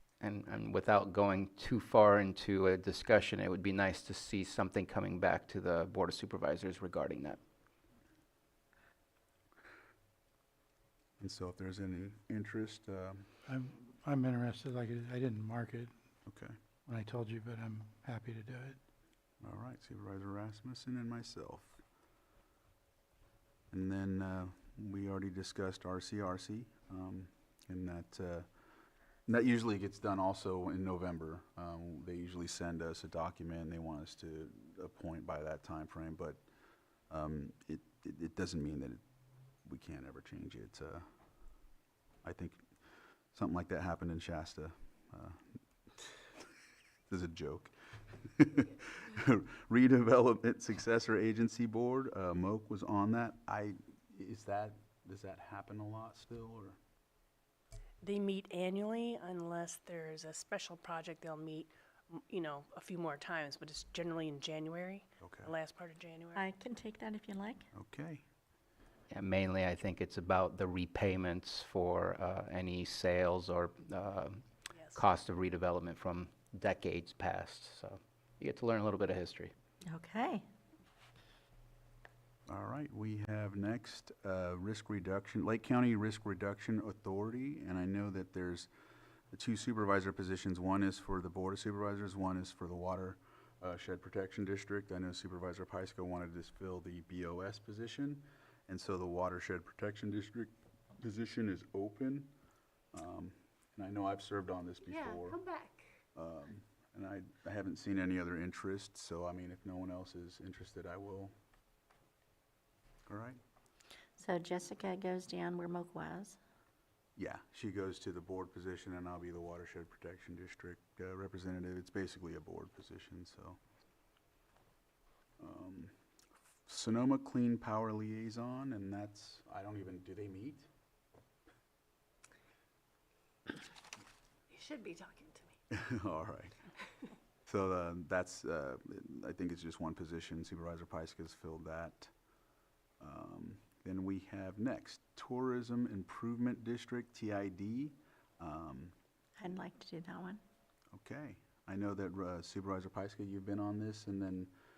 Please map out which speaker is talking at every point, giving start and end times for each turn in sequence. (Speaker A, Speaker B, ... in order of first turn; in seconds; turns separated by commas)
Speaker A: 0.2-7.4, Speaker B: 11.2-13.3, Speaker C: 13.5-15.9, Speaker B: 16.2-16.5, Speaker C: 16.9-18.8, Speaker B: 19.4-21.8, Speaker B: 23.7-28.5, Speaker B: 29.2-36.4, Speaker B: 37.1-39.0, Speaker B: 39.6-41.0, Speaker B: 42.2-42.6, Speaker B: 43.3-45.6, Speaker B: 47.1-56.8, Speaker D: 58.0-66.4, Speaker B: 65.2-65.5, Speaker E: 66.3-67.6, Speaker B: 67.7-68.2, Speaker A: 69.1-74.4, Speaker D: 74.7-75.0, Speaker A: 74.9-79.5, Speaker E: 79.8-80.4, Speaker B: 82.5-88.7, Speaker B: 89.3-102.3, Speaker B: 102.9-105.4, Speaker F: 104.8-105.9, Speaker B: 106.1-111.3, Speaker B: 113.1-113.4, Speaker E: 114.2-116.4, Speaker B: 117.2-123.6, Speaker B: 125.4-125.9, Speaker B: 126.7-130.7, Speaker F: 134.5-135.5, Speaker B: 135.7-136.7, Speaker B: 137.4-142.1, Speaker B: 143.0-148.9, Speaker E: 149.4-150.4, Speaker B: 150.9-154.5